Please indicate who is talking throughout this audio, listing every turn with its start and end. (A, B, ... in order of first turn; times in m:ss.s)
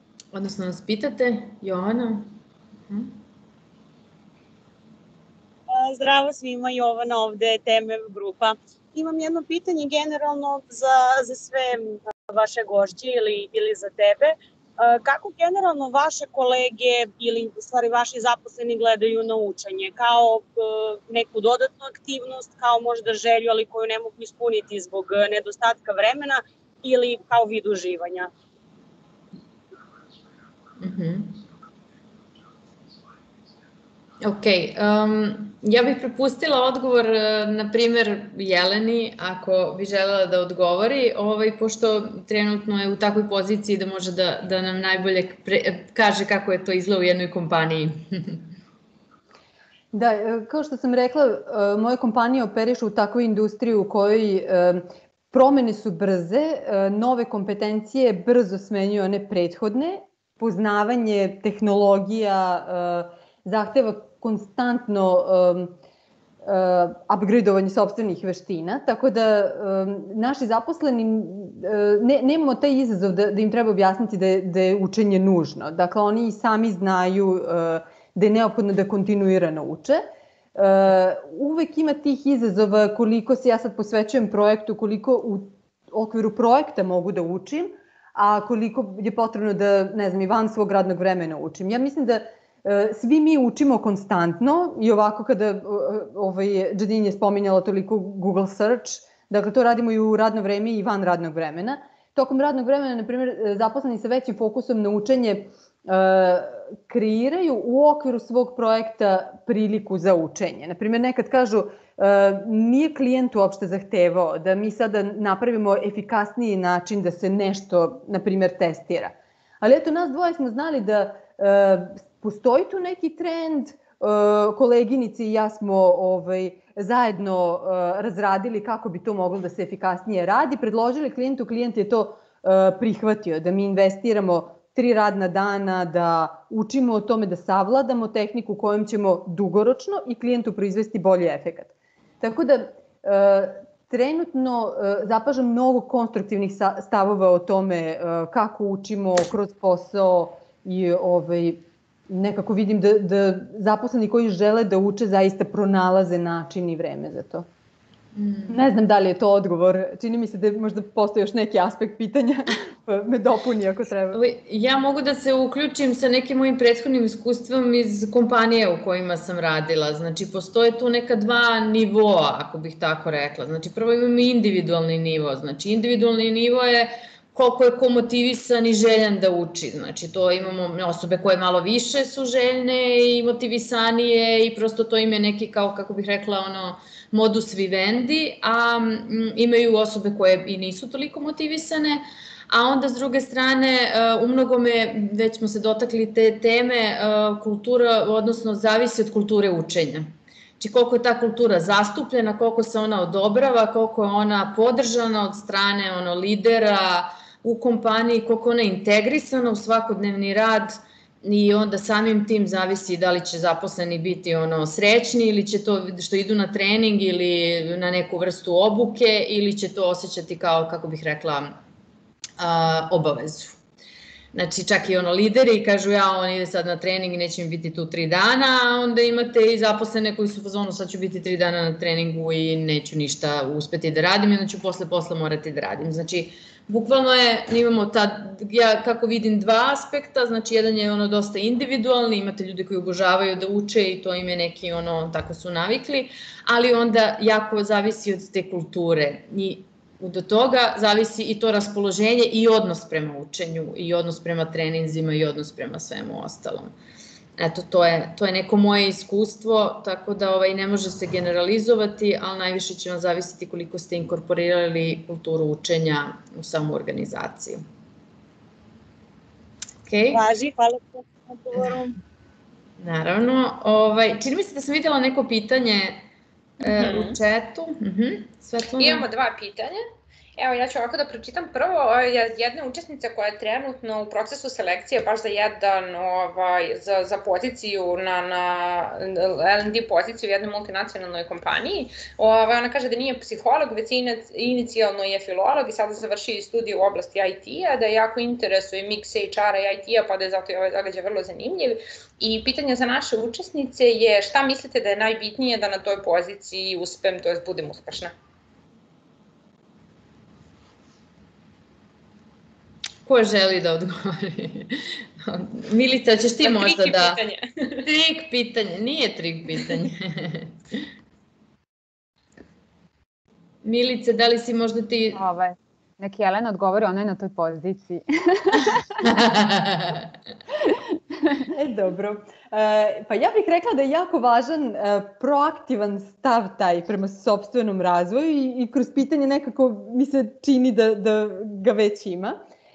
0:00.3-0:02.3 A
0:02.9-0:03.1 A
0:05.8-0:28.3 B
0:30.8-0:31.4 A
0:34.2-0:48.4 A
0:49.9-1:05.7 C
1:06.4-2:37.5 C
2:38.2-2:38.6 A
2:38.5-2:44.2 C
2:44.1-3:41.6 A
3:42.4-3:43.6 A
3:44.3-4:16.7 A
4:17.4-4:27.6 A
4:29.8-4:30.2 A
4:30.1-4:32.0 B
4:32.8-4:36.0 A
4:36.6-4:39.1 A
4:36.7-4:37.2 D
4:38.8-4:39.8 D
4:40.4-5:08.1 D
5:13.0-5:17.2 A
5:16.4-5:17.8 D
5:17.8-5:20.8 A
5:23.6-5:25.2 A
5:25.1-5:29.0 E
5:29.0-5:30.1 A
5:31.5-5:42.4 C